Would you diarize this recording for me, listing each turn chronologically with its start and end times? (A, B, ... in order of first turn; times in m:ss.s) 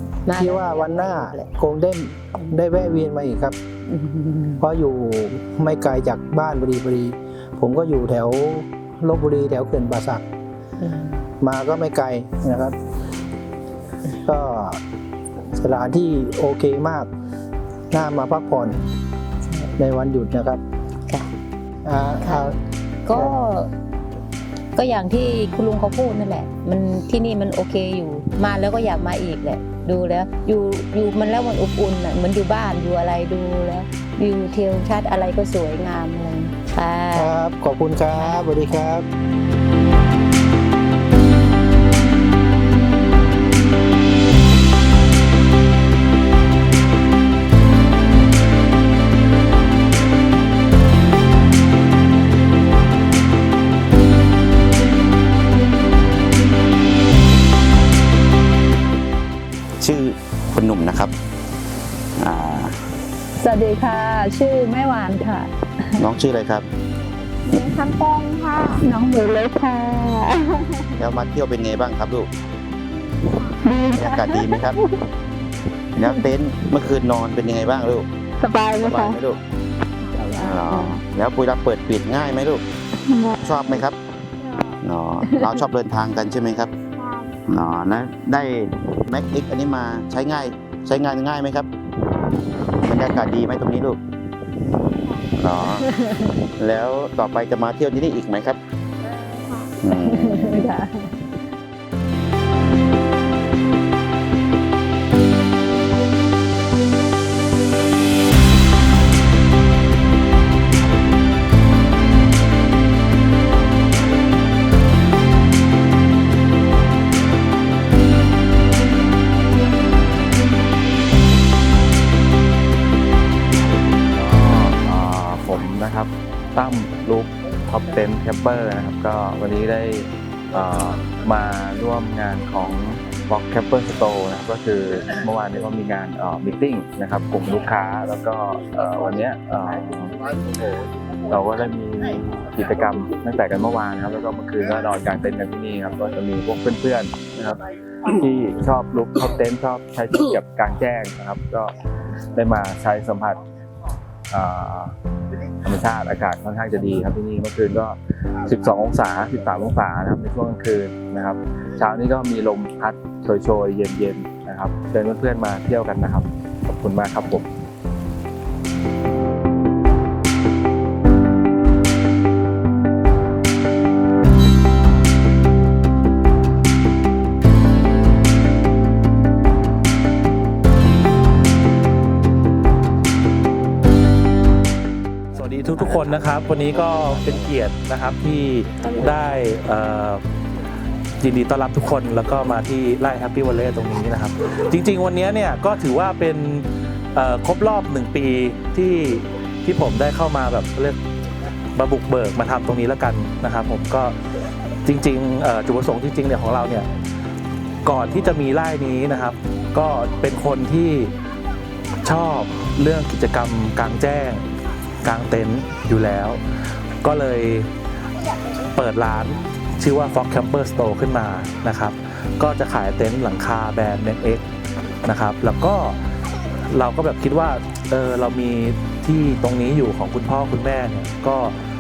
0:00.3-0:01.5 A
0:00.4-0:03.6 B
0:03.9-0:04.6 A
0:04.6-0:10.2 B
0:10.8-0:11.2 A
0:11.4-0:12.8 B
0:14.2-0:14.8 B
0:15.6-0:17.1 B
0:17.9-0:18.8 B
0:19.8-0:20.6 B
0:21.8-0:22.6 B
0:23.1-0:23.7 A
0:23.1-0:23.4 B
0:24.8-0:37.3 A
0:37.1-0:39.0 B
0:38.2-0:38.5 A
0:59.8-1:01.1 C
1:02.2-1:02.8 C
1:03.4-1:03.8 A
1:03.5-1:05.4 D
1:04.6-1:05.1 A
1:06.0-1:06.7 C
1:07.5-1:10.4 D
1:11.0-1:12.3 C
1:13.4-1:14.7 D
1:13.8-1:14.8 C
1:16.0-1:18.1 C
1:18.4-1:19.2 D
1:18.8-1:19.4 C
1:20.1-1:21.0 D
1:20.4-1:22.6 C
1:23.1-1:23.8 D
1:23.4-1:24.0 C
1:24.8-1:26.7 C
1:27.0-1:27.3 D
1:27.5-1:31.7 C
1:32.8-1:34.0 C
1:35.4-1:35.9 C
1:35.8-1:36.3 A
1:36.5-1:38.6 C
1:39.3-1:39.7 D
1:39.8-1:40.6 C
1:40.0-1:41.2 A
2:04.1-2:20.2 E
2:21.3-2:27.6 E
2:28.2-2:31.7 E
2:32.4-2:33.4 E
2:34.3-2:34.9 E
2:35.6-2:47.4 E
3:05.4-3:10.2 F
3:11.2-3:21.0 F
3:21.8-3:24.2 F
3:24.8-3:26.9 F
3:27.8-3:31.1 F
3:32.0-3:34.4 F
3:35.0-3:36.4 F
3:37.0-3:37.7 F
3:38.7-3:44.4 F
3:45.0-3:46.0 F
3:46.7-3:51.6 F